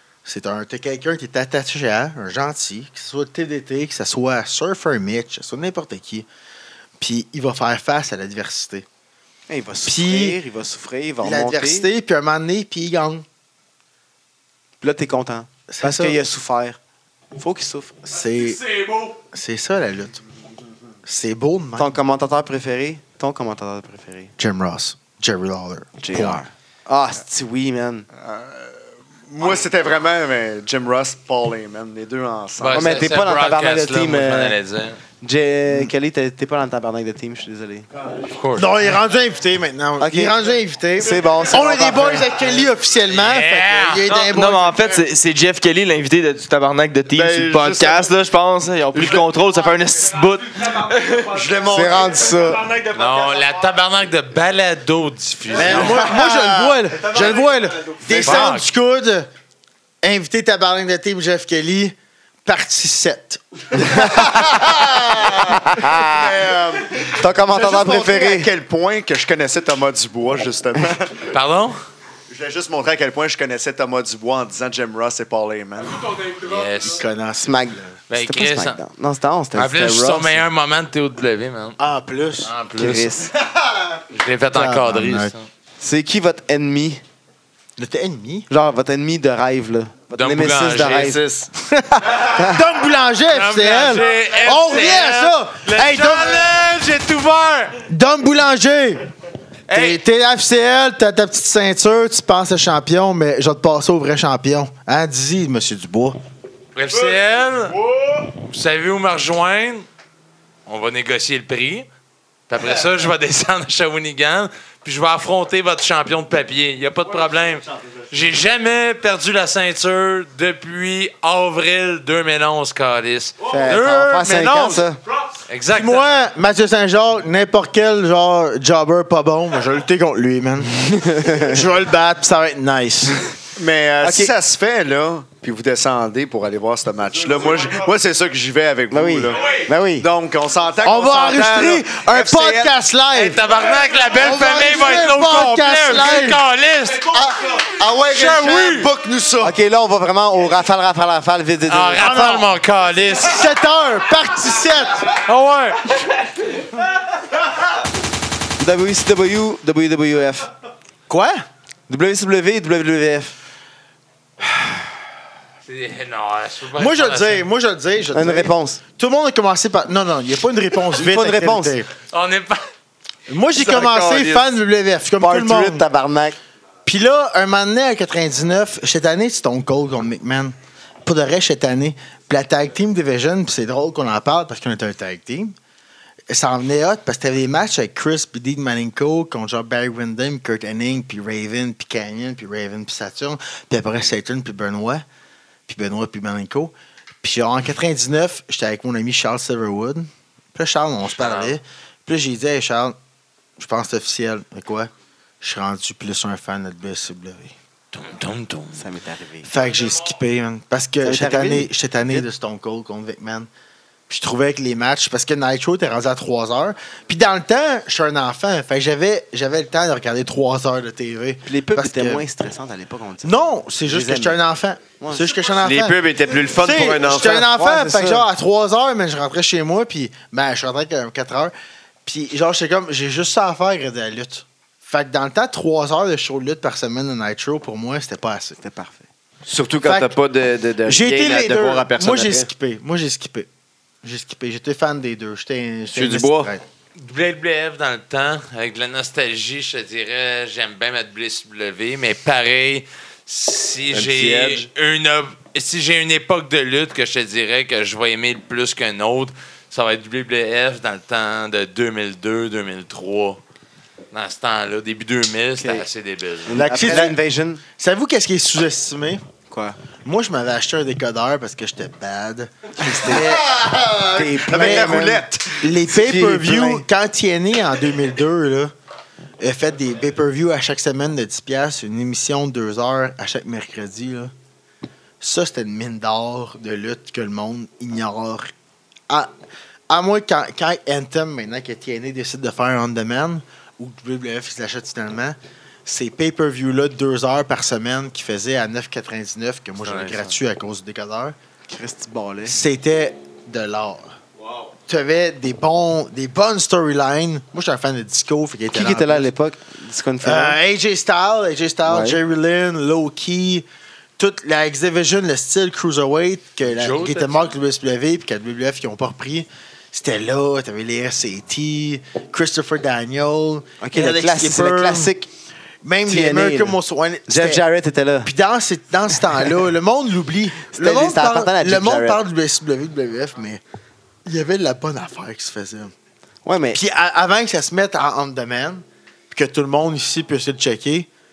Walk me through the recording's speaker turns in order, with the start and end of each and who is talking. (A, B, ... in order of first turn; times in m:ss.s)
0:00.2-0:06.3 A
0:07.0-0:08.9 A
0:09.5-0:11.9 B
0:09.9-0:10.4 A
0:11.2-0:13.2 A
0:14.8-0:16.8 B
0:15.7-0:16.2 A
0:17.4-0:18.0 B
0:18.0-0:20.2 A
0:21.0-0:21.9 A
0:21.8-0:24.3 B
0:24.4-0:26.4 A
0:26.0-0:28.1 B
0:28.2-0:33.0 C
0:32.6-0:35.0 D
0:32.7-0:34.6 B
0:35.2-0:37.9 B
0:38.3-0:38.7 D
0:38.6-0:45.0 A
0:40.0-0:40.4 B
0:41.0-0:42.4 B
0:43.0-0:44.1 D
0:44.1-0:51.3 E
0:47.1-0:48.1 C
0:51.2-0:52.2 C
0:51.6-0:52.8 B
0:52.9-0:56.2 D
0:55.6-0:59.3 A
0:55.6-0:57.3 C
0:58.1-0:58.4 C
0:58.2-0:58.7 D
1:00.0-1:04.5 A
1:03.9-1:06.4 B
1:04.4-1:11.3 C
1:07.0-1:08.5 B
1:11.3-1:11.8 D
1:12.3-1:16.2 C
1:16.4-1:17.0 D
1:16.9-1:18.0 A
1:17.4-1:20.4 B
1:18.1-1:18.8 D
1:19.6-1:21.8 D
1:21.8-1:22.5 A
1:22.4-1:23.1 D
1:22.8-1:23.3 B
1:24.1-1:25.4 D
1:24.5-1:25.3 A
1:25.8-1:27.0 B
1:27.8-1:28.5 A
1:28.5-1:31.2 B
1:30.2-1:31.1 D
1:30.8-1:31.2 F
1:31.1-1:31.4 C
1:31.6-1:36.5 A
1:32.3-1:32.6 B
1:33.3-1:37.8 D
1:37.9-1:39.1 A
1:39.7-1:40.0 D
1:39.7-1:46.2 A
1:46.8-1:49.9 D
1:50.7-1:51.9 D
1:52.5-2:04.8 D
2:03.5-2:05.0 B
2:05.5-2:06.1 D
2:05.7-2:13.2 A
2:10.8-2:11.6 B
2:13.6-2:22.8 C
2:14.0-2:14.3 B
2:18.9-2:20.1 B
2:20.8-2:23.4 A
2:23.1-2:27.2 D
2:24.2-2:26.4 A
2:27.0-2:29.6 C
2:28.0-2:28.9 D
2:29.4-2:32.4 B
2:31.7-2:33.5 D
2:32.0-2:32.5 A
2:33.1-2:35.2 A
2:35.1-2:36.2 D
2:38.6-2:40.5 B
2:41.1-2:41.4 A
2:41.9-2:43.3 B
2:45.7-2:47.5 D
2:46.8-2:51.9 A
2:48.1-2:48.8 B
2:50.9-2:51.8 B
2:52.1-2:52.7 D
2:53.3-2:55.8 A
2:53.6-2:54.4 E
2:55.2-2:56.4 B
2:56.9-3:00.5 A
3:01.0-3:05.6 A
3:06.3-3:15.0 A
3:15.7-3:23.0 A
3:21.2-3:21.6 D
3:23.6-3:27.6 A
3:27.9-3:28.8 D
3:28.8-3:29.5 B
3:29.4-3:33.5 A
3:31.0-3:32.2 B
3:34.1-3:42.3 A
3:41.5-3:44.4 B
3:43.2-3:46.0 A
3:45.0-3:45.3 B
3:45.5-3:47.5 F
3:46.5-3:51.5 A
3:47.3-3:48.3 B
3:52.1-3:58.6 A
3:58.6-3:59.0 B
3:59.5-4:02.5 F
3:59.8-4:00.2 A
4:00.8-4:03.5 A
4:04.0-4:06.6 A
4:05.9-4:06.5 F
4:07.0-4:23.4 D
4:13.9-4:14.7 F
4:24.1-4:26.6 D
4:25.6-4:25.9 B
4:26.5-4:27.6 B
4:26.5-4:27.2 A
4:27.8-4:29.2 A
4:29.5-4:29.8 B
4:30.0-4:33.4 A
4:32.8-4:33.4 B
4:33.0-4:35.6 C
4:34.0-4:35.3 B
4:34.5-4:35.1 A
4:35.6-4:38.7 A
4:35.8-4:36.8 B
4:39.4-4:44.3 A
4:45.2-4:48.5 A
4:49.9-5:01.4 A
4:59.8-5:00.3 D
5:01.7-5:02.6 B
5:02.5-5:04.2 A
5:04.9-5:09.3 A
5:08.7-5:10.6 B
5:10.2-5:13.7 A
5:11.9-5:12.2 B
5:14.2-5:25.1 A
5:16.7-5:17.5 D
5:23.8-5:25.3 B
5:25.8-5:27.6 A
5:26.1-5:28.3 B
5:28.2-5:33.6 A
5:30.7-5:32.2 B
5:34.3-5:35.9 A
5:36.4-5:36.8 B
5:36.7-5:41.1 A